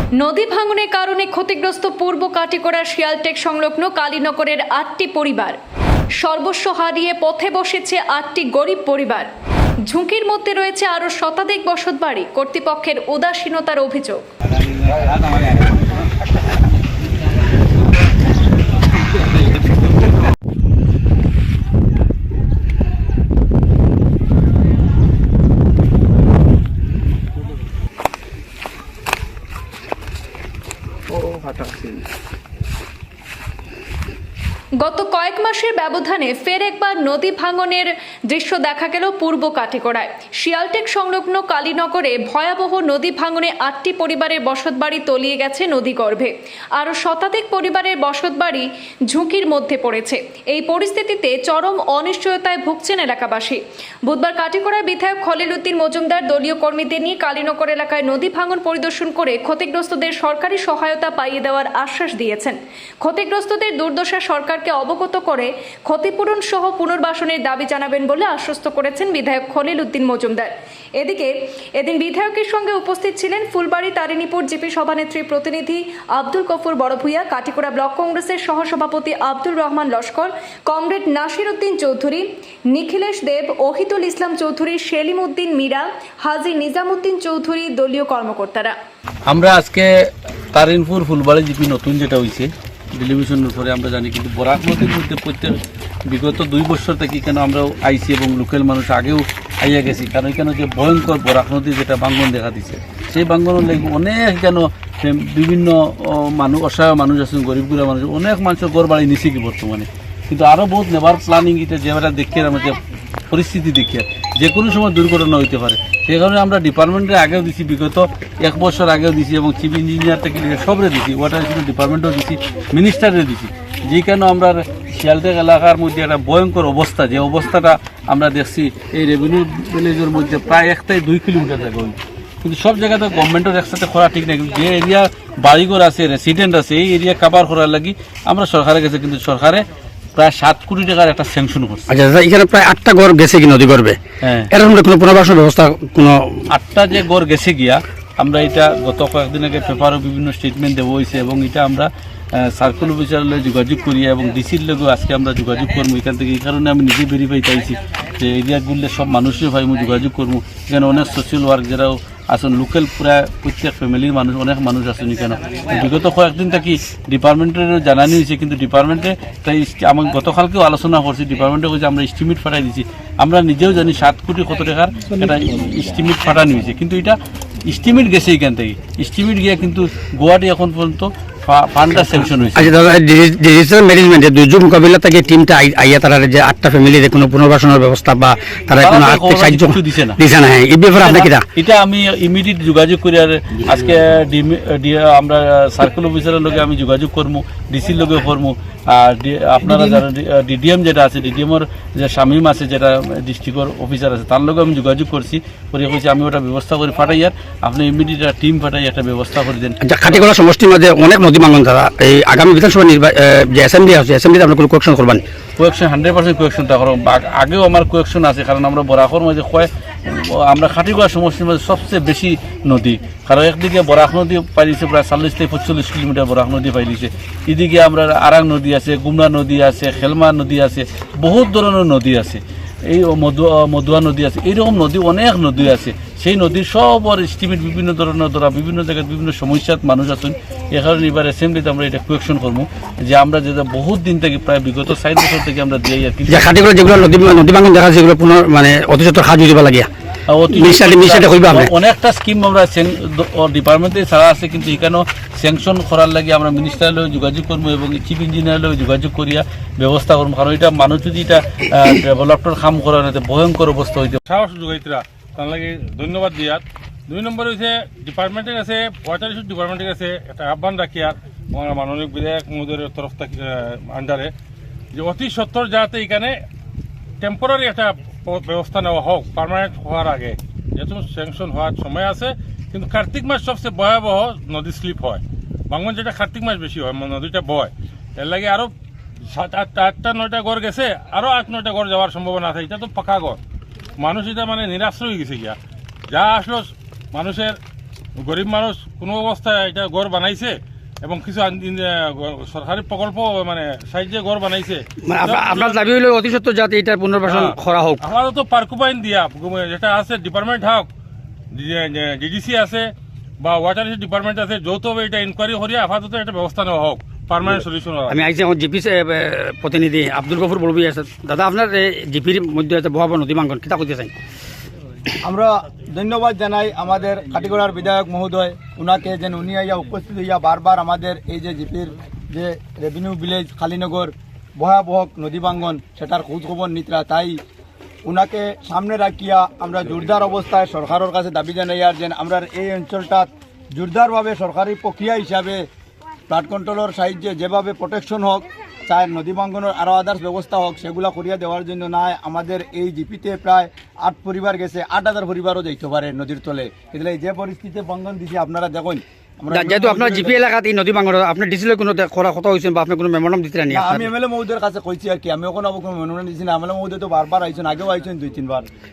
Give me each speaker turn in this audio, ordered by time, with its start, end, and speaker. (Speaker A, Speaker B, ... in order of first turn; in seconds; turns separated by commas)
Speaker A: 0.2-5.6, Speaker A: 6.2-9.3, Speaker A: 9.8-14.2, Speaker A: 34.8-88.7, Speaker B: 89.3-112.8, Speaker B: 113.3-139.6, Speaker B: 140.2-141.9, Speaker C: 141.9-144.0, Speaker B: 144.2-144.5, Speaker C: 144.5-146.4, Speaker B: 146.5-182.8, Speaker C: 182.6-191.4, Speaker B: 188.7-190.2, Speaker B: 190.9-210.3, Speaker C: 209.8-215.2, Speaker B: 215.6-246.7, Speaker C: 246.3-249.9, Speaker B: 250.3-264.2, Speaker C: 250.5-251.7, Speaker D: 264.3-274.3, Speaker D: 274.9-276.4, Speaker D: 277.2-288.7, Speaker D: 289.3-293.4, Speaker D: 294.0-295.6, Speaker D: 296.1-297.6, Speaker D: 298.2-305.8, Speaker C: 305.0-308.0, Speaker D: 307.2-310.9, Speaker D: 311.5-318.2, Speaker C: 318.1-324.1, Speaker E: 325.2-337.4, Speaker E: 338.1-345.6, Speaker E: 346.3-360.4, Speaker C: 359.5-364.1, Speaker E: 363.7-368.7